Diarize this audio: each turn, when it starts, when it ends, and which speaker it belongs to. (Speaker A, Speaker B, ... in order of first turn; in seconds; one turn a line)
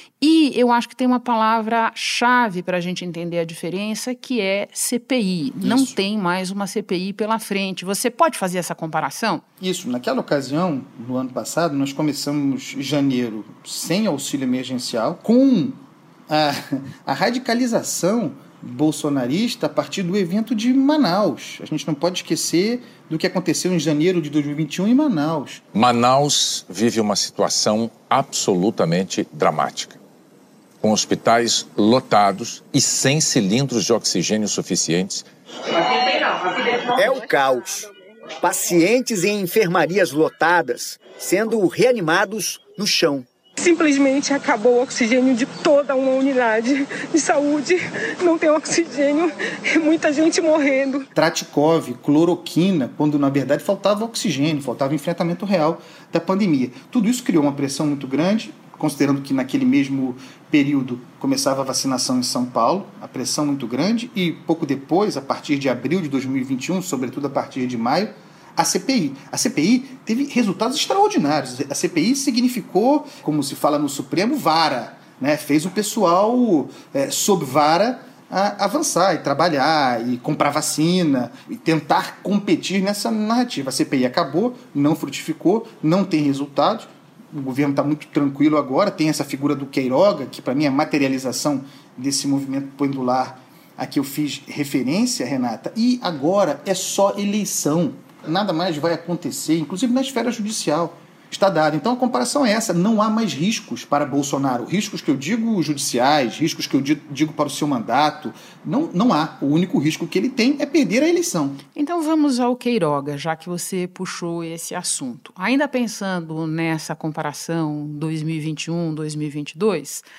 Speaker A: 0.2-9.4
Speaker B: 5.6-6.0
Speaker B: 9.6-25.6
Speaker C: 25.7-30.0
Speaker C: 30.8-35.2
Speaker D: 36.8-37.9
Speaker D: 38.4-43.3
Speaker E: 43.6-51.1
Speaker B: 51.1-111.6
Speaker A: 111.8-120.0